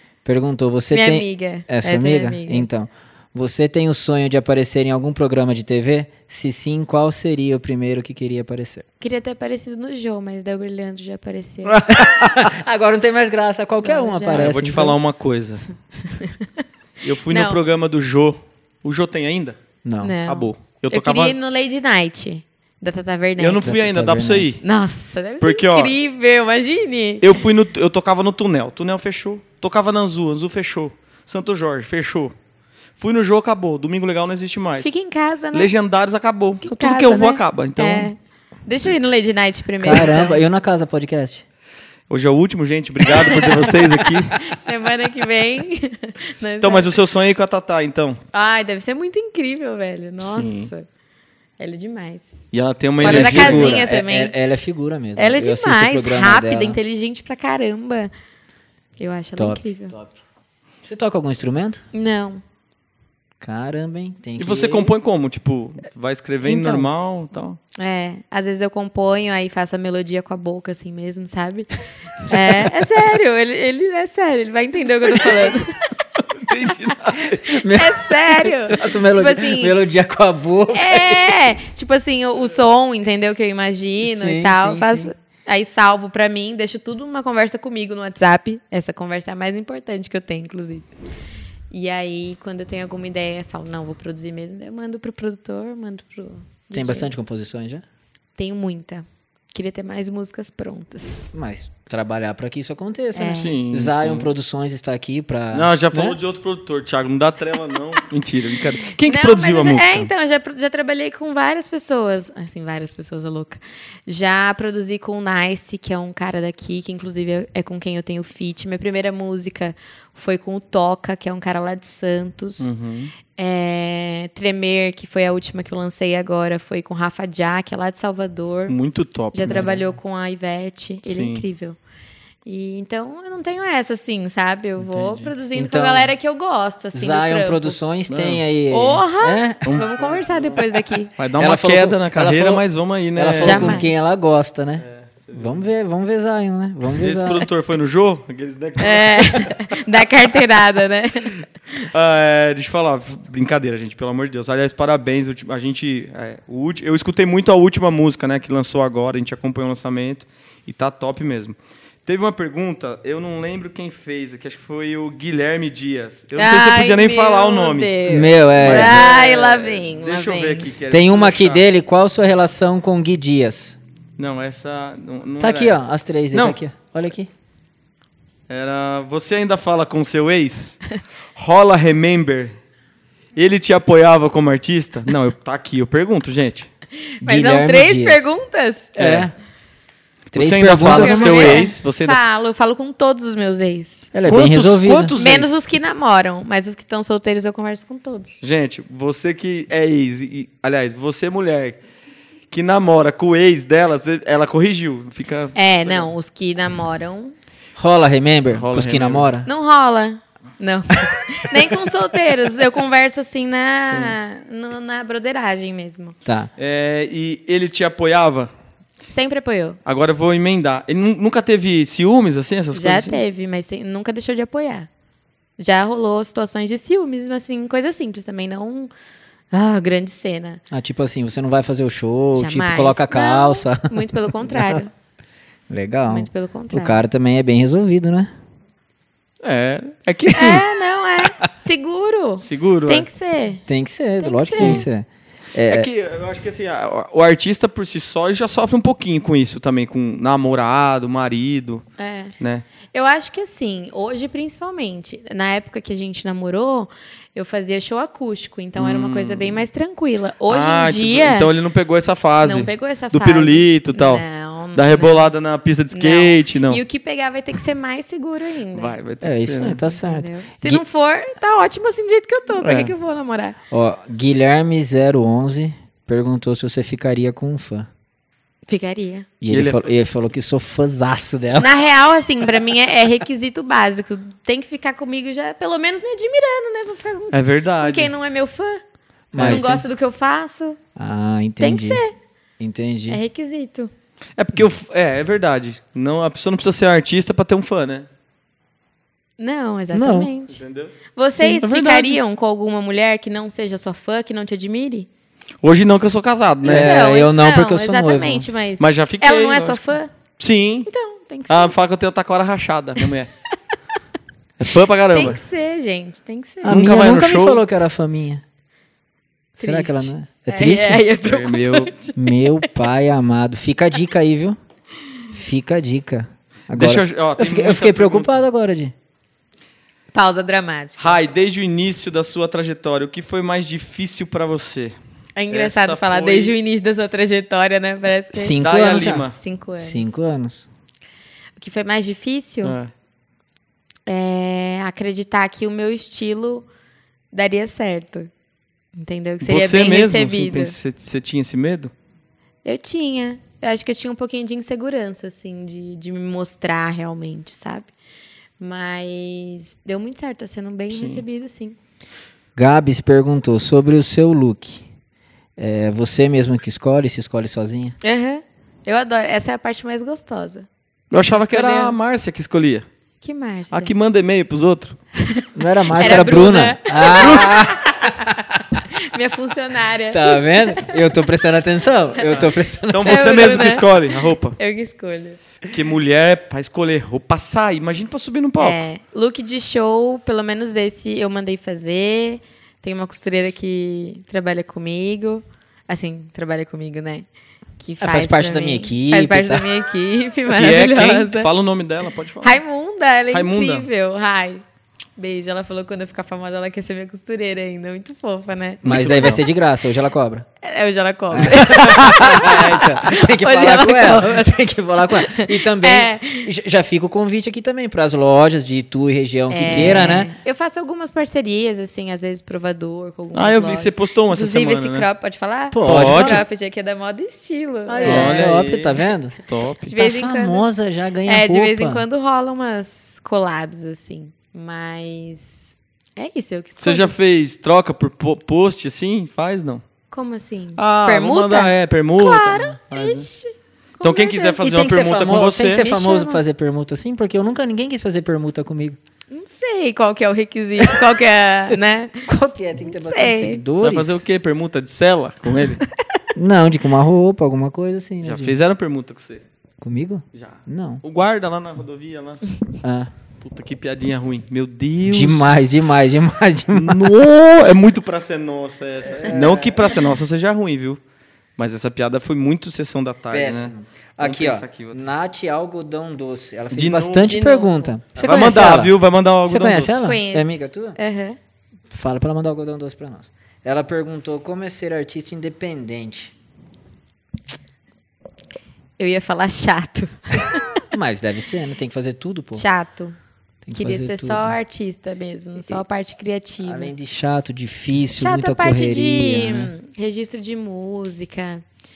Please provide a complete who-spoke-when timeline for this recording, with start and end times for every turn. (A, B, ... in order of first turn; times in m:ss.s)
0:00.2-0:08.9 A
0:00.9-0:02.7 B
0:09.0-0:11.8 B
0:11.6-0:12.6 C
0:11.9-0:15.0 A
0:13.8-0:14.5 B
0:14.3-0:15.6 C
0:16.0-0:16.6 B
0:17.0-0:19.6 C
0:17.3-0:17.6 B
0:19.8-0:20.2 A
0:20.0-0:23.7 B
0:20.2-0:21.4 C
0:23.4-0:24.6 C
0:23.6-0:24.5 A
0:24.6-0:27.4 B
0:25.4-0:25.9 C
0:27.2-0:32.3 C
0:33.0-0:34.9 C
0:34.8-0:35.7 B
0:35.5-0:38.1 C
0:36.6-0:40.4 B
0:39.8-0:41.4 A
0:42.1-0:44.5 C
0:43.1-0:46.9 B
0:46.6-0:48.2 C
0:48.3-0:50.9 B
0:50.2-0:50.7 C
0:51.6-0:52.4 B
0:52.5-0:53.8 C
0:53.0-0:54.3 B
0:53.0-0:56.8 A
0:55.2-0:58.1 B
0:59.0-1:00.0 B
0:59.4-1:00.2 A
1:00.8-1:01.8 A
1:01.9-1:02.4 B
1:03.4-1:04.9 A
1:04.4-1:07.6 C
1:06.4-1:06.9 A
1:07.8-1:15.9 B
1:16.2-1:17.6 C
1:17.2-1:21.4 A
1:17.6-1:19.8 B
1:20.7-1:30.9 B
1:24.0-1:25.1 A
1:31.7-1:37.1 B
1:36.7-1:37.8 A
1:38.4-1:41.3 B
1:41.3-1:46.2 A
1:43.2-1:43.6 B
1:43.3-1:44.3 C
1:45.5-1:50.1 C
1:49.0-2:02.7 B
2:02.6-2:03.1 C
2:03.3-2:08.8 B
2:08.7-2:09.7 C
2:09.3-2:11.8 B
2:09.5-2:09.8 A
2:11.0-2:11.4 C
2:12.4-2:17.8 B
2:14.8-2:16.1 A
2:16.9-2:19.7 A
2:18.1-2:18.4 C
2:18.7-2:21.1 B
2:19.6-2:23.8 C
2:21.4-2:27.5 A
2:23.4-2:23.9 B
2:24.8-2:25.7 C
2:27.0-2:29.8 C
2:28.8-2:31.4 B
2:31.9-2:51.6 C
2:46.4-2:50.7 B
2:48.1-2:49.0 A
2:50.9-2:53.8 A
2:54.2-2:56.6 C
2:55.4-2:57.3 A
2:58.5-3:02.6 C
3:03.4-3:06.7 C
3:07.2-3:09.0 B
3:07.2-3:08.3 A
3:09.0-3:09.3 A
3:09.0-3:09.3 C
3:10.3-3:11.7 A
3:10.4-3:12.2 C
3:10.8-3:14.1 B
3:14.1-3:15.2 A
3:14.3-3:15.6 C
3:15.2-3:18.4 B
3:18.4-3:21.8 C
3:22.5-3:26.1 C
3:25.6-3:27.3 B
3:27.8-3:29.5 A
3:28.5-3:29.3 C
3:29.5-3:36.2 B
3:33.9-3:34.1 C
3:36.2-3:36.5 A
3:36.6-3:38.5 C
3:39.1-3:39.8 B
3:39.8-3:43.2 C
3:42.7-3:44.9 B
3:45.6-3:48.9 B
3:49.5-3:50.6 B
3:50.7-3:54.8 A
3:52.4-3:54.9 B
3:55.7-3:58.3 A
3:56.1-3:57.0 B
3:59.4-4:00.7 C
4:00.3-4:03.6 B
4:02.4-4:03.1 C
4:03.7-4:05.9 A
4:04.2-4:04.8 B
4:04.6-4:04.8 C
4:05.7-4:11.9 C
4:12.0-4:12.3 B
4:12.4-4:12.7 C
4:12.9-4:21.5 B
4:18.8-4:19.6 C
4:20.5-4:26.8 C
4:22.4-4:25.3 B
4:25.9-4:29.0 B
4:28.7-4:29.8 C
4:29.2-4:30.8 A
4:29.6-4:33.6 B
4:32.6-4:32.9 C
4:33.7-4:37.9 A
4:38.7-4:39.3 B
4:39.4-4:41.7 A
4:39.5-4:39.9 C
4:41.6-4:48.8 B
4:47.3-4:48.1 C
4:49.3-4:49.9 A
4:49.4-4:49.8 C
4:49.4-4:50.8 B
4:51.0-4:52.0 A
4:51.6-4:52.2 B
4:52.6-4:53.2 A
4:53.1-4:53.9 B
4:54.4-4:58.1 C
4:59.4-5:00.6 B
4:59.9-5:00.3 A
5:00.5-5:02.2 C
5:01.2-5:05.1 B
5:05.6-5:07.0 C
5:06.6-5:08.5 A
5:06.6-5:10.1 B
5:08.8-5:09.8 C
5:10.4-5:10.9 C
5:10.9-5:11.8 B
5:11.5-5:13.3 C
5:14.6-5:15.4 C
5:15.1-5:16.8 B
5:16.6-5:18.4 A
5:16.6-5:17.6 C
5:19.6-5:22.7 B
5:19.6-5:21.1 A
5:21.2-5:22.1 C
5:22.2-5:24.6 A
5:25.3-5:28.9 A
5:26.7-5:28.4 C
5:30.1-5:31.2 B
5:31.0-5:35.0 C
5:35.4-5:40.1 B
5:35.5-5:36.6 C
5:38.3-5:40.7 A
5:38.6-5:39.4 C
5:41.6-5:42.8 B
5:42.6-5:42.9 C
5:44.1-5:46.7 B
5:47.3-5:48.3 B
5:48.9-5:50.8 B
5:49.4-5:51.9 C
5:52.6-5:57.9 B
5:58.6-6:01.8 B
6:00.9-6:01.2 C
6:02.6-6:04.9 A
6:05.6-6:08.0 A
6:08.0-6:10.7 B
6:11.1-6:12.9 C
6:11.2-6:12.0 B
6:13.2-6:13.9 B
6:13.7-6:15.0 C
6:15.2-6:21.0 B
6:15.6-6:18.6 A
6:17.0-6:17.8 C
6:20.1-6:23.7 A
6:22.3-6:24.6 C
6:23.0-6:25.4 B
6:25.7-6:28.8 C
6:28.6-6:37.3 B
6:37.8-6:41.5 B
6:38.0-6:39.7 A
6:40.5-6:42.6 C
6:42.4-6:44.6 B
6:43.3-6:43.9 C
6:45.2-6:48.8 B
6:48.8-6:49.4 C
6:48.8-6:50.5 A
6:50.6-6:56.5 B
6:51.3-7:00.3 A
6:59.5-7:08.5 B
6:59.6-7:00.2 C
7:03.3-7:05.1 C
7:05.7-7:06.4 A
7:05.8-7:06.4 C
7:07.9-7:12.1 A
7:08.0-7:09.9 C
7:09.8-7:10.6 B
7:11.2-7:17.1 B
7:16.8-7:19.8 C
7:20.1-7:24.6 B
7:20.8-7:23.3 C
7:24.0-7:25.9 C
7:24.6-7:29.0 A
7:25.8-7:26.4 B
7:29.3-7:32.3 B
7:32.3-7:34.2 A
7:33.0-7:33.6 B
7:33.8-7:35.8 C
7:36.4-7:38.6 A
7:38.2-7:39.4 C
7:39.8-7:41.0 A
7:40.3-7:42.6 C
7:42.8-7:43.1 A
7:43.4-7:45.5 C
7:45.1-7:47.1 A
7:46.7-7:51.0 C
7:49.2-7:50.0 A
7:51.6-7:55.0 C
7:53.3-8:01.0 A
7:56.7-7:57.4 C
7:57.2-7:57.9 B
7:58.2-8:00.1 C
8:00.0-8:01.4 B
8:01.9-8:06.3 A
8:09.0-8:10.7 B
8:10.9-8:12.6 A
8:12.6-8:13.2 B
8:13.6-8:14.6 A
8:13.7-8:16.9 B
8:16.6-8:19.7 A
8:18.2-8:21.6 B